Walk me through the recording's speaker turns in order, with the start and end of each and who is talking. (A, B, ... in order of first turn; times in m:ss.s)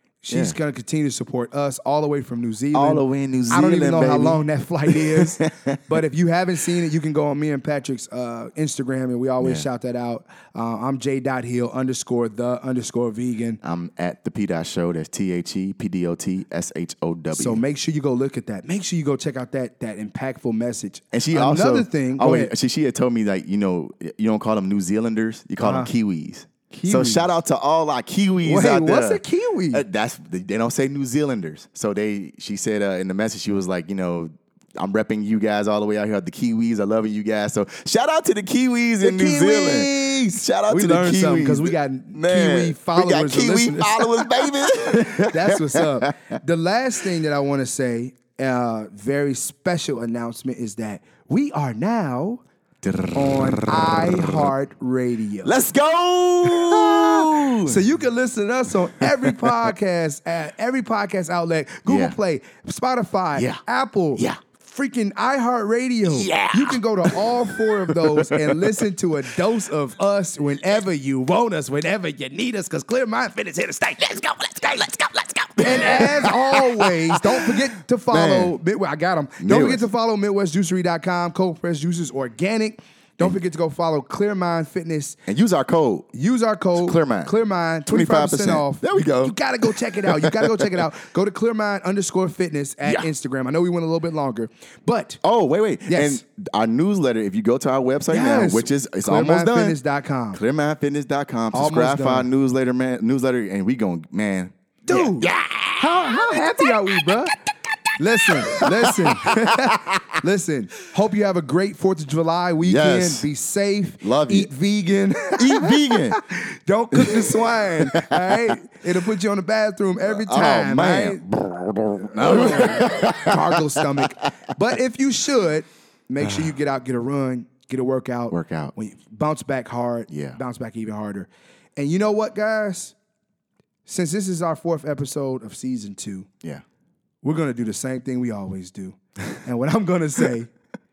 0:00.2-0:13.6 A
0:00.3-0:00.6 B
0:02.7-0:05.9 B
0:09.4-0:09.6 B
0:13.6-0:17.6 B
0:17.3-0:22.5 A
0:21.1-0:46.4 B
0:25.6-0:25.9 A
0:26.7-0:27.3 A
0:28.4-0:29.8 A
0:39.0-0:52.4 A
0:52.8-0:54.5 B
0:53.1-0:55.5 A
0:55.4-0:57.8 B
0:56.4-1:25.2 A
0:59.0-0:59.5 B
1:01.8-1:02.2 B
1:03.3-1:03.6 B
1:04.1-1:04.4 B
1:06.0-1:08.9 B
1:15.4-1:18.5 B
1:19.4-1:19.8 B
1:25.3-1:26.1 B
1:26.1-1:35.2 A
1:26.8-1:27.3 B
1:27.8-1:30.8 B
1:35.2-1:39.8 B
1:35.9-1:36.2 A
1:38.1-1:40.4 A
1:40.3-1:46.7 B
1:41.5-1:42.3 A
1:44.8-1:47.3 A
1:48.0-2:01.2 A
1:48.4-1:50.2 B
1:52.6-1:53.3 B
1:54.0-1:54.5 B
1:55.4-1:56.2 B
1:56.9-1:58.6 B
2:00.0-2:04.4 B
2:01.9-2:12.9 A
2:08.3-2:08.7 B
2:10.1-2:10.4 B
2:13.8-2:16.3 A
2:17.2-2:20.5 A